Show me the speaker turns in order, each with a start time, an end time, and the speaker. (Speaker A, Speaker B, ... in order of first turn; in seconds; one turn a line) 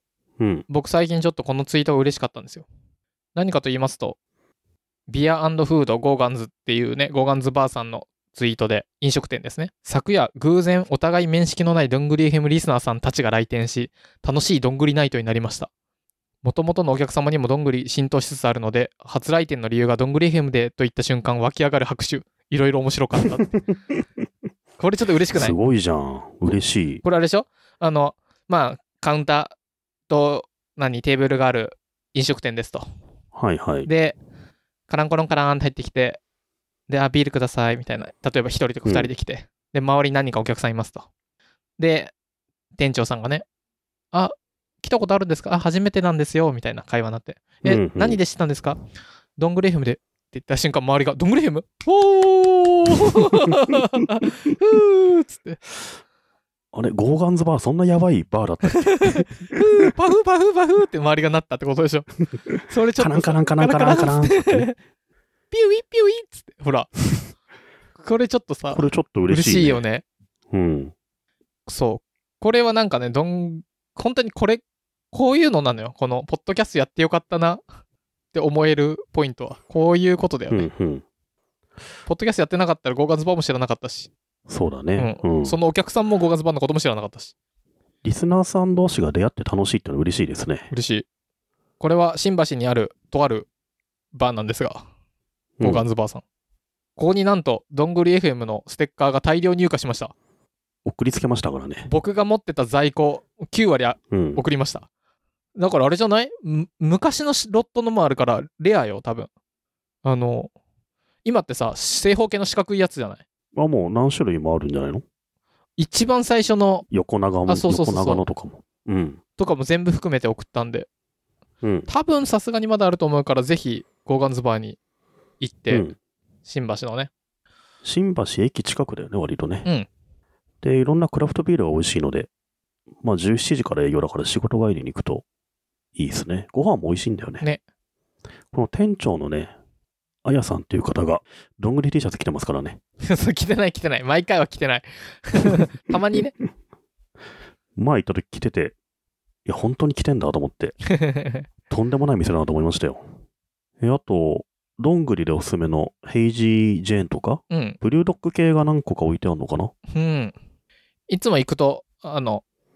Speaker A: 0.4-0.7
Speaker B: 0.7-2.7
Speaker B: 3.4-4.2
Speaker B: 5.1-15.7
Speaker B: 16.4-23.5
Speaker B: 24.8-25.6
Speaker A: 25.3-27.0
Speaker B: 27.0-29.6
Speaker B: 30.1-32.9
Speaker A: 33.3-33.9
Speaker B: 33.9-34.2
Speaker B: 34.9-36.2
Speaker B: 36.9-41.1
Speaker A: 38.9-39.1
Speaker B: 41.8-42.1
Speaker B: 42.8-43.4
Speaker B: 44.1-48.8
Speaker A: 47.6-48.2
Speaker B: 49.4-55.6
Speaker A: 56.7-59.9
Speaker B: 58.8-62.1
Speaker A: 62.5-64.7
Speaker B: 62.6-64.7
Speaker B: 65.5-66.9
Speaker B: 68.0-70.0
Speaker A: 68.7-69.8
Speaker A: 70.5-70.9
Speaker B: 71.7-77.6
Speaker B: 78.3-80.7
Speaker A: 80.5-81.0
Speaker B: 82.1-84.1
Speaker A: 84.5-85.6
Speaker B: 85.0-87.3
Speaker A: 88.0-90.7
Speaker B: 90.7-91.0
Speaker B: 91.8-93.5
Speaker B: 94.1-94.9
Speaker A: 95.6-95.9
Speaker B: 95.6-96.2
Speaker B: 97.0-100.1
Speaker A: 100.8-101.9
Speaker B: 101.9-104.9
Speaker A: 104.1-104.5
Speaker B: 105.6-109.3
Speaker B: 110.0-110.5
Speaker B: 111.2-113.2
Speaker A: 113.5-115.0
Speaker B: 115.8-116.9
Speaker A: 116.9-119.2
Speaker B: 117.5-118.3
Speaker B: 119.4-120.9
Speaker A: 121.6-121.9
Speaker B: 121.9-124.8
Speaker B: 125.4-125.9
Speaker A: 125.7-126.0
Speaker B: 126.5-127.1
Speaker A: 127.8-129.7
Speaker A: 130.6-132.3
Speaker A: 133.0-135.2
Speaker A: 135.9-137.4
Speaker A: 138.5-139.5
Speaker A: 140.2-142.8
Speaker B: 143.0-146.4
Speaker A: 147.8-148.8
Speaker A: 149.5-150.8
Speaker B: 150.9-151.4
Speaker A: 151.7-153.1
Speaker A: 153.8-159.7
Speaker B: 157.5-157.8
Speaker B: 159.9-160.3
Speaker B: 161.1-162.4